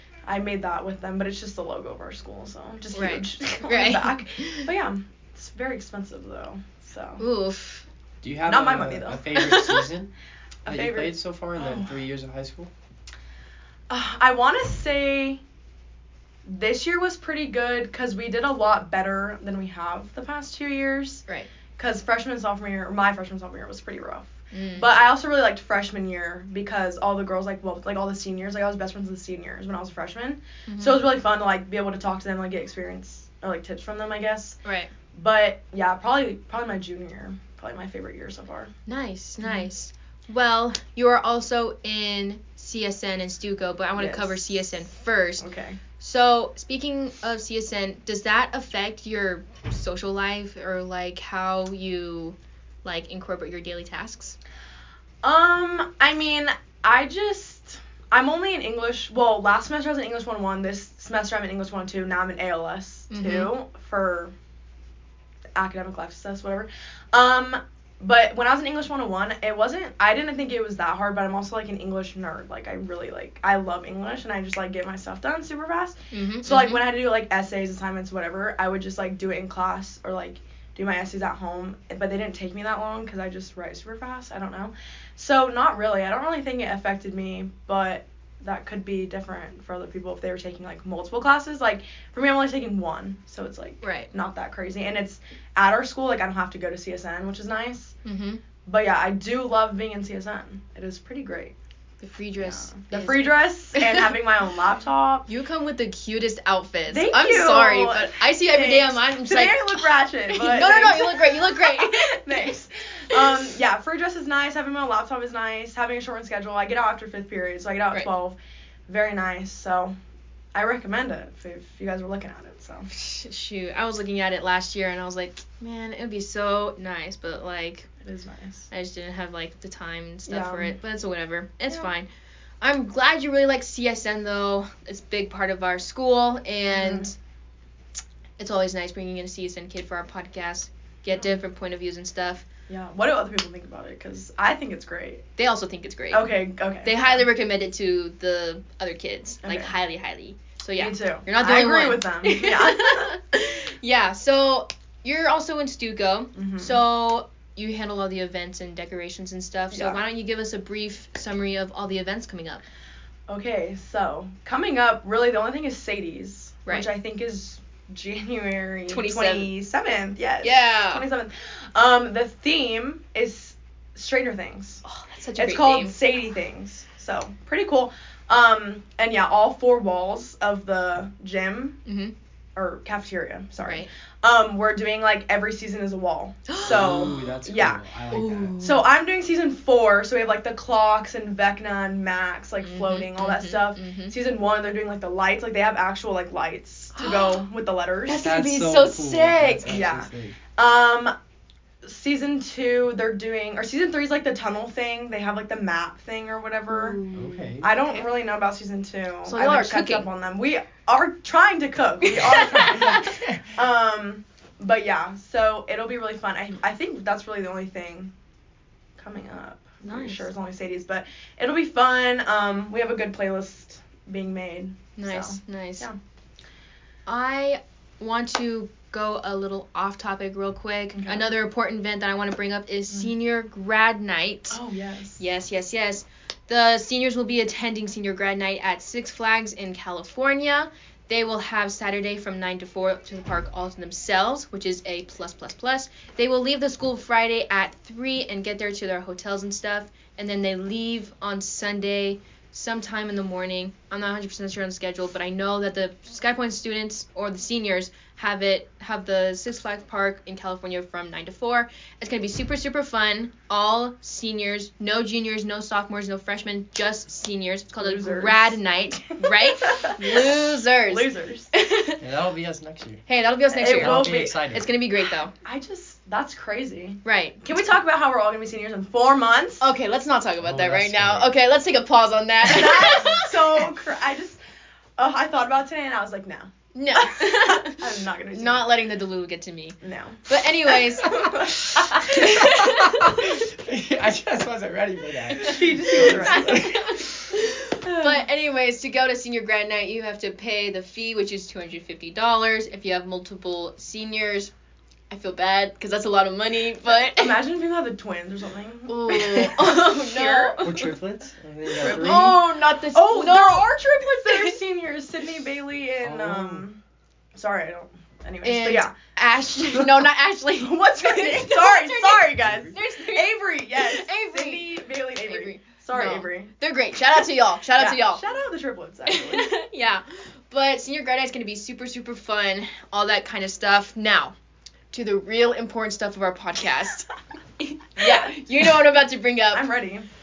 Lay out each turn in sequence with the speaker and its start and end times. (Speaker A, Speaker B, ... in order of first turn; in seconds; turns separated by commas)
Speaker A: 0.3-7.2, Speaker B: 2.9-4.7, Speaker B: 7.2-7.8, Speaker C: 8.2-10.1, Speaker A: 8.5-9.4, Speaker B: 9.4-9.8, Speaker A: 10.7-11.9, Speaker C: 10.7-12.7, Speaker A: 13.9-15.4, Speaker A: 16.5-21.2, Speaker A: 21.8-34.6, Speaker B: 24.5-24.9, Speaker B: 30.7-31.1, Speaker B: 34.6-34.9, Speaker A: 35.1-38.7, Speaker B: 38.9-45.5, Speaker A: 44.0-44.4, Speaker A: 45.4-45.8, Speaker B: 46.0-54.4, Speaker A: 55.2-64.3, Speaker B: 63.1-63.5, Speaker A: 65.5-97.9, Speaker B: 76.1-76.8, Speaker B: 93.8-94.1, Speaker B: 98.0-98.4, Speaker A: 98.7-101.5, Speaker B: 102.0-104.1, Speaker A: 102.4-105.3, Speaker B: 105.3-112.5, Speaker A: 106.9-119.9, Speaker B: 113.1-113.4, Speaker A: 120.5-122.9, Speaker B: 122.9-127.9, Speaker A: 128.0-128.7, Speaker B: 128.7-132.1, Speaker A: 130.3-130.7, Speaker B: 132.6-137.1, Speaker A: 136.8-137.1, Speaker B: 138.4-142.4, Speaker A: 142.7-145.2, Speaker B: 145.4-146.3, Speaker A: 146.1-147.2, Speaker B: 146.8-162.6, Speaker A: 149.5-149.7, Speaker A: 150.8-153.1, Speaker A: 156.3-156.8, Speaker A: 159.7-160.0, Speaker A: 163.3-174.8, Speaker B: 168.9-169.5, Speaker B: 170.4-171.1, Speaker B: 174.8-175.9, Speaker A: 175.4-181.8, Speaker B: 181.9-182.1, Speaker A: 182.6-187.8, Speaker B: 186.5-187.4, Speaker C: 186.6-188.7, Speaker B: 188.1-188.8, Speaker A: 188.6-198.2, Speaker B: 192.6-194.2, Speaker B: 196.9-197.4, Speaker B: 198.1-199.8, Speaker C: 198.2-200.4, Speaker A: 199.7-201.1, Speaker A: 201.8-207.0, Speaker B: 206.7-208.0, Speaker C: 207.1-207.8, Speaker A: 207.6-218.1, Speaker B: 209.3-210.1, Speaker B: 212.0-213.4, Speaker C: 212.9-213.4, Speaker A: 219.0-226.0, Speaker B: 219.8-220.3, Speaker B: 225.0-225.9, Speaker B: 227.1-234.6, Speaker A: 230.9-231.2, Speaker A: 234.5-235.2, Speaker B: 235.2-272.0, Speaker A: 267.8-268.5, Speaker A: 269.6-270.0, Speaker A: 270.9-271.5, Speaker C: 272.0-273.0, Speaker B: 273.1-275.3, Speaker A: 273.5-274.3, Speaker C: 273.7-274.7, Speaker A: 275.4-279.6, Speaker B: 277.1-277.4, Speaker B: 279.6-283.6, Speaker C: 280.4-281.3, Speaker A: 282.5-284.4, Speaker A: 285.0-288.7, Speaker B: 286.7-293.1, Speaker A: 289.8-290.3, Speaker C: 291.0-297.3, Speaker A: 295.5-296.6, Speaker B: 296.1-304.5, Speaker A: 297.9-298.2, Speaker B: 305.1-307.4, Speaker A: 306.9-309.0, Speaker B: 308.9-310.9, Speaker C: 309.1-309.7, Speaker A: 310.1-310.6, Speaker C: 310.6-312.4, Speaker B: 311.8-313.7, Speaker A: 312.9-316.8, Speaker B: 314.3-314.5, Speaker C: 316.0-316.7, Speaker A: 317.4-318.9, Speaker B: 318.4-328.2, Speaker A: 320.7-326.5, Speaker C: 322.4-322.7, Speaker A: 327.8-329.5, Speaker B: 329.1-334.4, Speaker B: 334.9-337.1, Speaker B: 337.6-339.6, Speaker A: 339.5-340.1